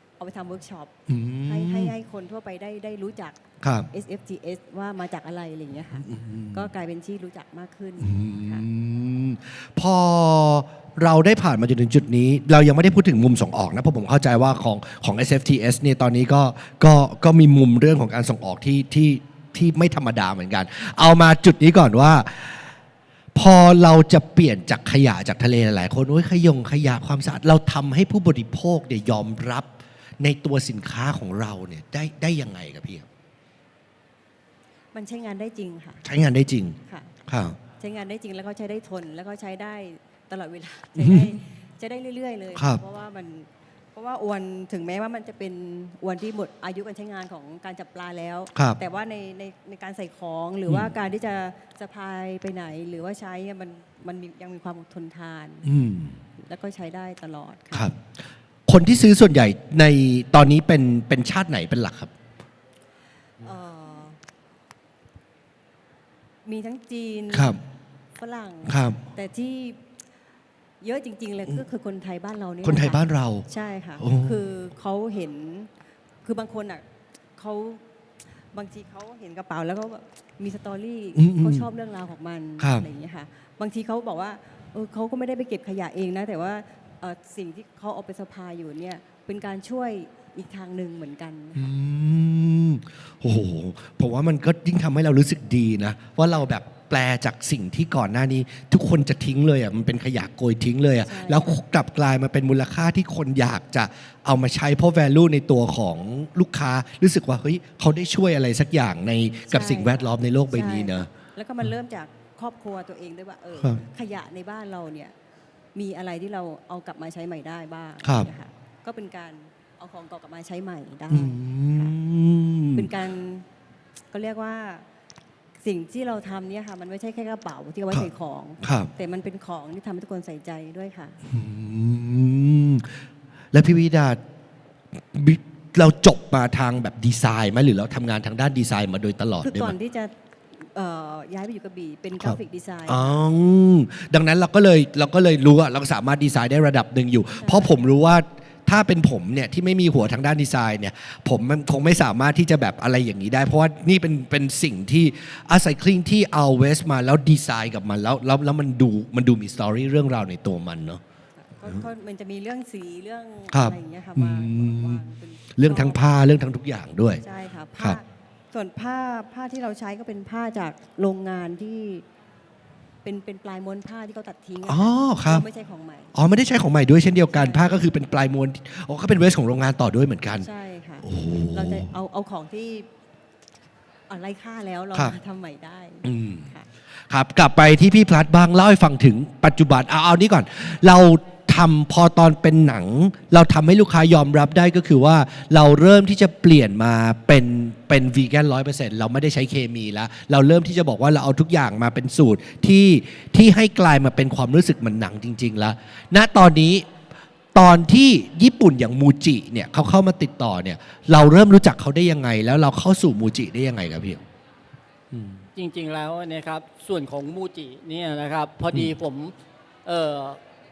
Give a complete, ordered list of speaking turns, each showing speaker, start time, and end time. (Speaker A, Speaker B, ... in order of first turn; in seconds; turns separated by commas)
Speaker A: 0.2-8.7, Speaker B: 1.1-1.9, Speaker B: 3.6-3.9, Speaker B: 6.0-6.7, Speaker B: 8.0-22.7, Speaker B: 23.4-33.1, Speaker A: 34.9-36.0, Speaker B: 36.0-37.6, Speaker A: 36.9-55.7, Speaker B: 41.0-41.4, Speaker B: 42.6-42.8, Speaker B: 55.6-56.2, Speaker A: 56.4-57.9, Speaker B: 57.7-58.1, Speaker B: 58.7-62.1, Speaker A: 63.4-64.2, Speaker A: 66.4-67.6, Speaker B: 67.3-67.6, Speaker A: 68.2-69.8, Speaker B: 68.7-69.0, Speaker A: 70.8-75.7, Speaker B: 72.6-73.5, Speaker B: 74.0-74.4, Speaker A: 76.2-76.8, Speaker A: 77.4-77.8, Speaker A: 78.5-91.7, Speaker B: 81.2-81.7, Speaker B: 82.6-82.8, Speaker B: 91.6-111.1, Speaker A: 101.0-101.6, Speaker A: 109.5-115.1, Speaker A: 115.8-122.0, Speaker B: 118.0-118.3, Speaker B: 121.1-122.9, Speaker A: 122.7-123.5, Speaker A: 124.1-124.9, Speaker A: 125.6-131.2, Speaker B: 128.6-128.9, Speaker B: 131.3-133.0, Speaker B: 133.5-134.2, Speaker B: 134.9-139.8, Speaker A: 139.4-143.2, Speaker B: 142.2-161.0, Speaker A: 147.4-147.8, Speaker A: 161.4-166.0, Speaker B: 163.5-165.0, Speaker B: 165.6-167.2, Speaker A: 167.2-172.1, Speaker A: 173.0-176.1, Speaker B: 174.7-175.4, Speaker B: 176.1-180.5, Speaker A: 177.3-177.9, Speaker A: 180.4-182.9, Speaker B: 181.0-181.9, Speaker A: 184.1-186.7, Speaker B: 186.0-186.5, Speaker B: 187.1-206.9, Speaker B: 207.6-214.2, Speaker B: 215.1-215.4, Speaker C: 215.6-219.3, Speaker C: 219.8-220.4